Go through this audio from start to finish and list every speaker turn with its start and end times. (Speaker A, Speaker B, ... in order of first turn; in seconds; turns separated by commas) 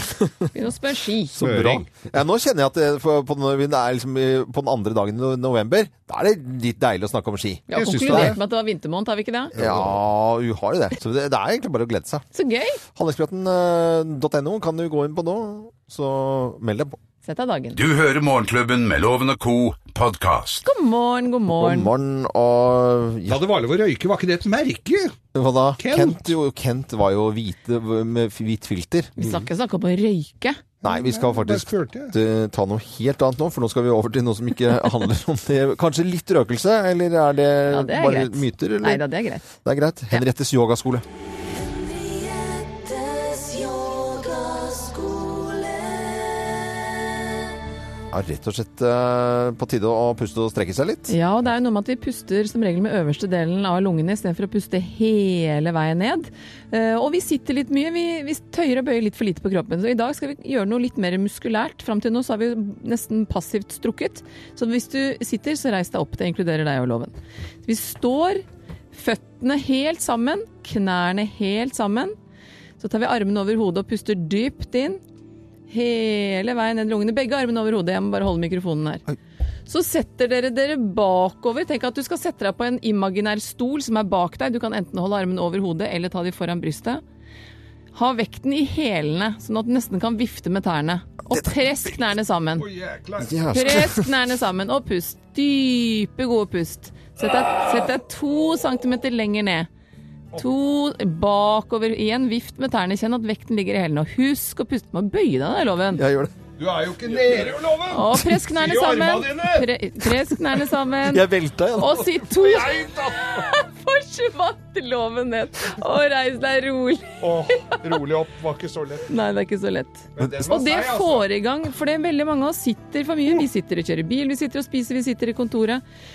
Speaker A: 0.5-1.4, Speaker B: 1.3-8.3, Speaker C: 1.4-1.9, Speaker A: 7.7-9.5, Speaker C: 7.7-8.4, Speaker B: 9.5-12.3, Speaker A: 12.3-12.8, Speaker B: 12.9-16.9, Speaker A: 17.2-17.8, Speaker D: 17.8-20.6, Speaker A: 20.6-21.9, Speaker B: 21.5-23.4, Speaker C: 23.3-25.1, Speaker B: 25.3-29.1, Speaker C: 25.8-26.3, Speaker C: 29.2-29.4, Speaker A: 29.2-30.6, Speaker C: 30.8-32.1, Speaker B: 30.8-39.0, Speaker A: 37.7-39.4, Speaker B: 39.6-41.0, Speaker E: 41.4-46.9, Speaker B: 48.1-51.1, Speaker A: 51.1-67.1, Speaker A: 67.6-72.2, Speaker A: 72.8-75.0, Speaker A: 75.7-79.0, Speaker A: 79.7-87.0, Speaker A: 87.9-92.6, Speaker B: 91.3-91.9, Speaker C: 92.6-93.8, Speaker B: 93.2-94.1, Speaker A: 93.5-99.7, Speaker A: 100.3-106.0, Speaker B: 105.9-106.3, Speaker C: 106.6-109.7, Speaker A: 107.9-117.8, Speaker B: 111.0-112.2, Speaker C: 112.2-113.4, Speaker C: 117.2-119.0, Speaker A: 119.1-125.8, Speaker C: 120.2-121.2